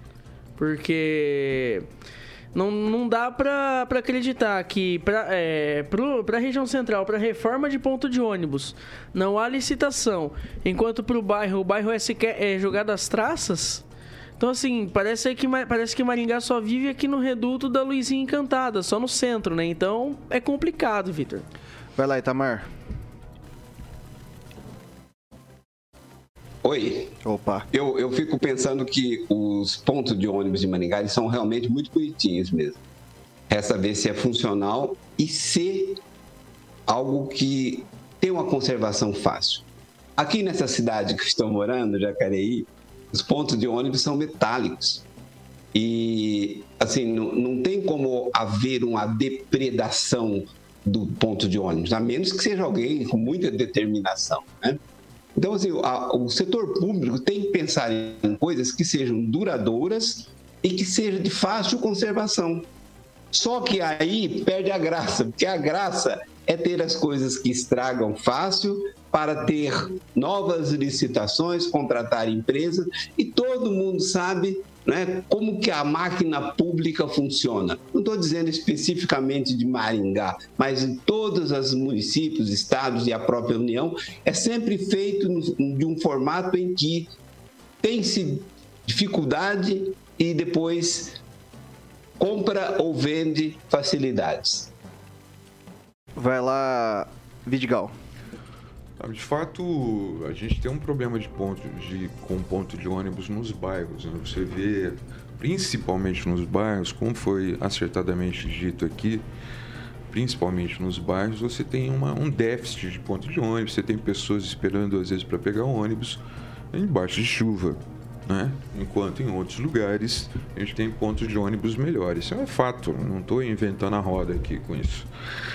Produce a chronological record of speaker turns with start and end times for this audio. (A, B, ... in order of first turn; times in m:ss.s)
0:00.6-0:01.9 A
0:02.5-0:13.8 A
0:14.4-0:21.5 A
0:22.0-0:22.7 B
0:26.6-0:27.1 C
0:27.2-0:27.7 B
0:27.7-0:32.8 C
0:33.5-0:36.0 C
0:36.9-0:39.6 C
0:40.2-0:45.0 C
0:45.7-0:54.8 C
0:55.4-1:02.7 C
1:03.3-1:27.1 C
1:27.8-1:31.2 C
1:32.2-1:34.7 C
1:36.2-1:37.9 B
1:39.0-1:49.2 D
1:50.1-1:56.2 D
1:56.7-2:05.1 D